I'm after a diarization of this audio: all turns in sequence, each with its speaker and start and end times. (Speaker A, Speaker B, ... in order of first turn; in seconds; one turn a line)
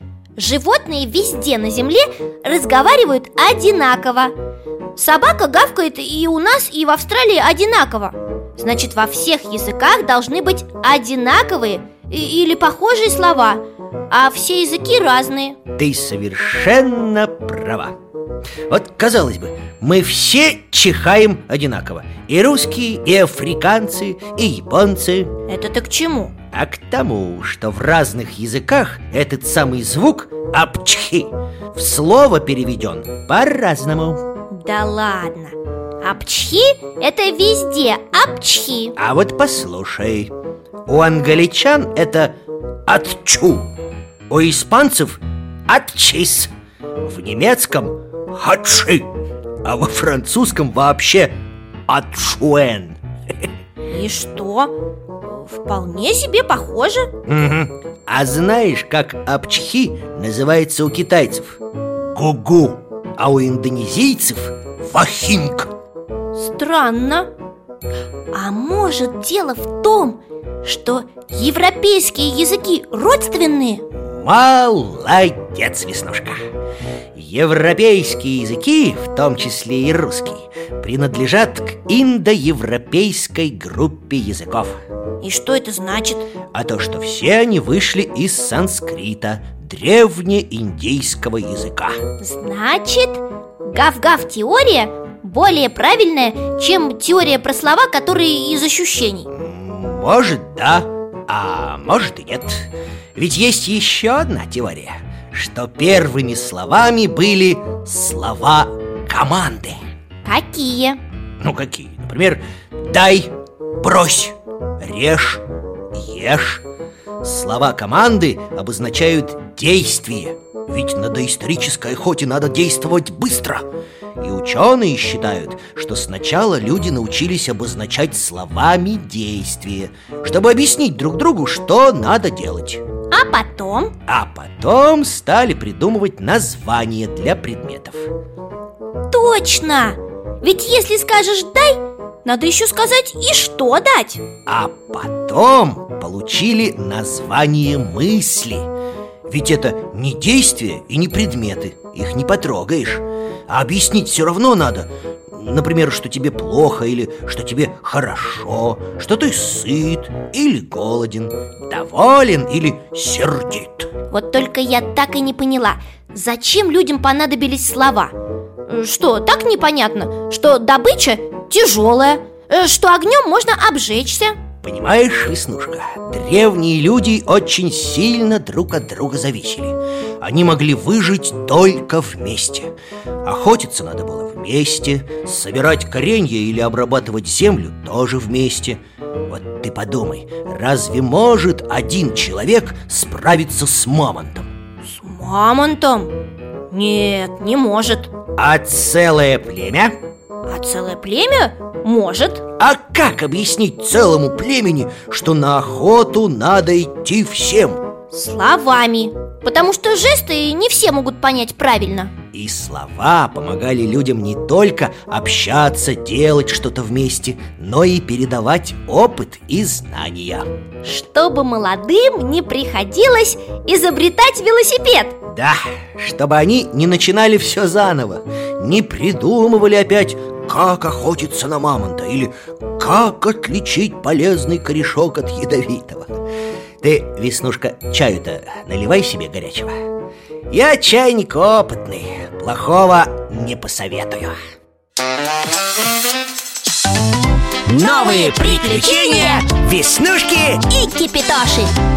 Speaker A: 0.3-4.3
Speaker A: 5.0-15.6
Speaker B: 15.7-17.9
Speaker B: 18.7-25.3
Speaker A: 25.5-26.3
Speaker B: 26.5-34.2
Speaker A: 34.5-38.9
Speaker B: 39.0-40.3
Speaker B: 40.9-42.3
Speaker B: 42.9-43.7
Speaker B: 44.3-46.5
Speaker B: 47.0-49.1
Speaker B: 49.6-51.4
Speaker B: 51.9-53.0
Speaker A: 53.8-57.1
Speaker B: 57.2-61.6
Speaker B: 62.1-65.7
Speaker A: 66.3-67.3
Speaker A: 68.3-73.8
Speaker B: 73.9-76.4
Speaker B: 77.1-84.8
Speaker A: 85.2-86.3
Speaker B: 86.5-92.0
Speaker A: 92.2-99.3
Speaker B: 99.3-109.8
Speaker A: 110.2-111.0
Speaker B: 111.4-116.6
Speaker B: 117.2-123.6
Speaker B: 124.2-132.8
Speaker A: 133.1-133.9
Speaker B: 134.1-138.1
Speaker A: 139.1-144.2
Speaker B: 144.4-148.7
Speaker B: 149.3-163.9
Speaker A: 164.1-168.1
Speaker A: 168.7-174.4
Speaker B: 174.6-182.7
Speaker B: 183.2-194.5
Speaker A: 194.8-196.2
Speaker A: 196.7-198.1
Speaker B: 198.3-199.9
Speaker A: 200.4-202.4
Speaker B: 202.6-207.8
Speaker A: 208.1-212.1
Speaker B: 212.3-220.5
Speaker A: 220.8-225.2
Speaker B: 225.3-236.2
Speaker B: 236.8-239.7
Speaker B: 240.5-244.4
Speaker A: 247.7-249.5
Speaker B: 247.7-250.7
Speaker A: 250.7-251.7